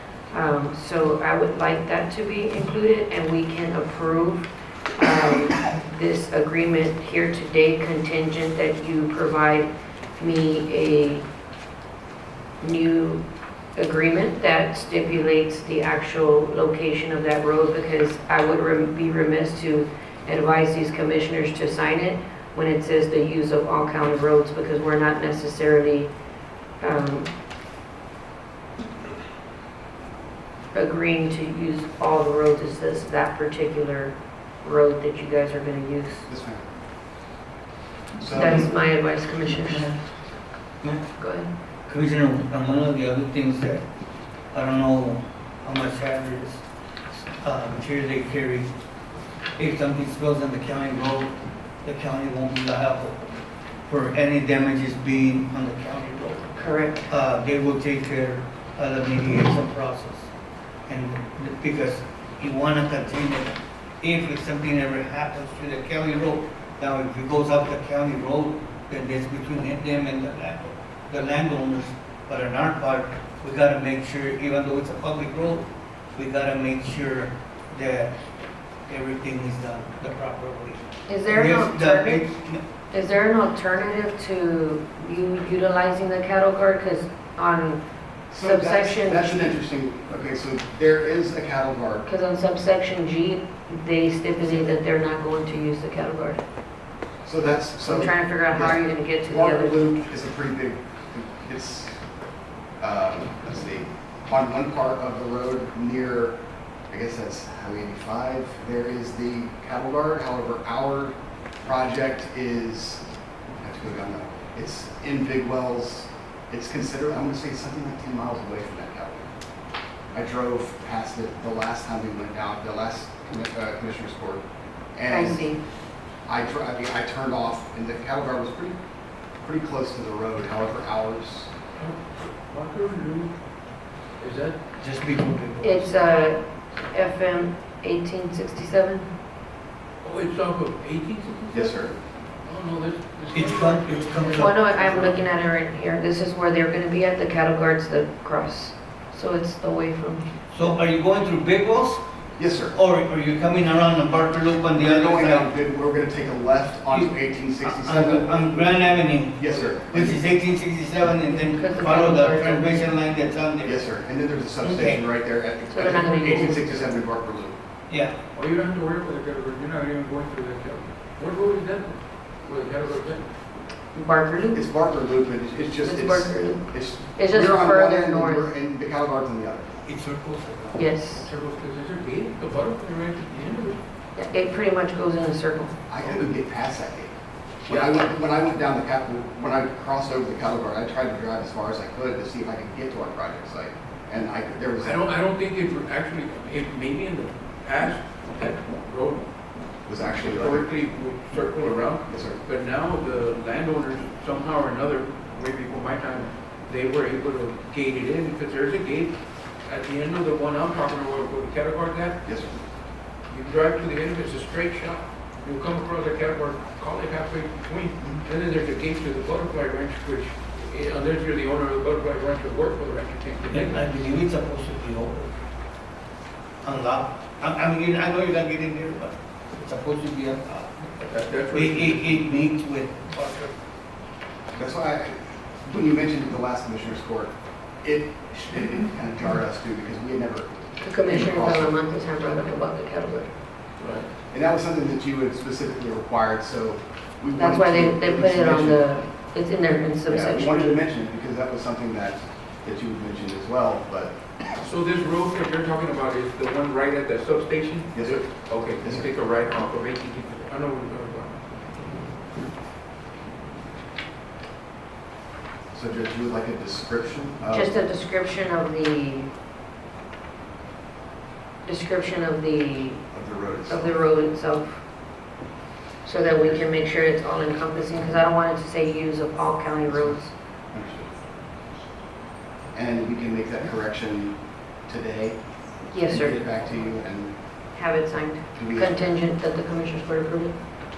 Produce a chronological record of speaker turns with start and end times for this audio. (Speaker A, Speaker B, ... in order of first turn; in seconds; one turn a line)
Speaker A: 0.3-11.2
Speaker A: 12.6-13.2
Speaker A: 13.8-26.1
Speaker A: 26.8-27.3
Speaker A: 30.7-36.3
Speaker B: 36.3-36.7
Speaker B: 38.2-38.7
Speaker A: 38.3-39.9
Speaker C: 39.7-40.0
Speaker A: 41.2-41.5
Speaker C: 41.9-43.8
Speaker C: 44.5-46.6
Speaker C: 47.1-48.7
Speaker C: 49.6-51.3
Speaker C: 51.8-53.2
Speaker C: 53.9-56.5
Speaker A: 56.6-57.1
Speaker C: 57.1-60.3
Speaker C: 60.9-78.1
Speaker C: 78.9-82.6
Speaker A: 81.1-82.2
Speaker A: 82.9-87.8
Speaker B: 88.3-92.1
Speaker A: 88.3-89.4
Speaker A: 92.0-96.4
Speaker B: 97.2-102.0
Speaker A: 97.8-99.8
Speaker B: 102.8-106.4
Speaker B: 106.9-119.3
Speaker B: 120.1-124.4
Speaker B: 125.0-125.5
Speaker A: 125.1-125.6
Speaker B: 126.3-128.8
Speaker B: 129.4-131.5
Speaker D: 131.8-133.3
Speaker D: 134.2-134.6
Speaker C: 134.8-135.9
Speaker A: 135.6-136.4
Speaker A: 136.9-139.1
Speaker D: 140.0-141.9
Speaker B: 141.5-142.0
Speaker D: 142.4-145.1
Speaker C: 143.3-145.2
Speaker A: 144.3-150.3
Speaker C: 150.5-152.0
Speaker B: 152.4-152.8
Speaker C: 152.7-155.5
Speaker B: 154.8-158.8
Speaker C: 156.9-163.9
Speaker B: 159.4-160.2
Speaker A: 161.3-162.9
Speaker B: 163.6-167.6
Speaker C: 164.6-165.1
Speaker A: 165.7-166.6
Speaker D: 165.9-166.8
Speaker C: 167.9-168.2
Speaker D: 168.3-173.3
Speaker A: 173.9-174.7
Speaker B: 174.5-179.9
Speaker A: 175.8-178.5
Speaker C: 179.9-180.8
Speaker A: 180.8-181.3
Speaker D: 181.1-183.8
Speaker A: 184.2-185.7
Speaker B: 185.9-187.1
Speaker D: 186.0-186.3
Speaker B: 187.7-195.1
Speaker D: 187.7-188.1
Speaker D: 194.8-199.3
Speaker B: 199.9-200.7
Speaker D: 200.0-212.2
Speaker B: 202.1-202.4
Speaker B: 212.3-212.6
Speaker D: 213.3-223.9
Speaker C: 223.5-225.3
Speaker C: 226.6-230.9
Speaker D: 231.0-232.4
Speaker C: 231.5-233.5
Speaker B: 234.6-237.3
Speaker B: 237.8-241.7
Speaker A: 240.8-243.3
Speaker D: 243.8-244.1
Speaker B: 244.3-248.9
Speaker A: 247.3-250.8
Speaker B: 250.1-254.2
Speaker D: 254.6-261.4
Speaker B: 258.8-259.1
Speaker B: 265.7-267.7
Speaker A: 267.5-269.3
Speaker A: 271.6-273.1
Speaker B: 273.1-273.9
Speaker A: 273.7-274.8
Speaker A: 276.0-280.3
Speaker B: 279.9-281.1
Speaker B: 282.7-285.4
Speaker A: 285.9-286.4
Speaker B: 286.1-287.4
Speaker A: 287.7-290.6
Speaker B: 288.6-289.0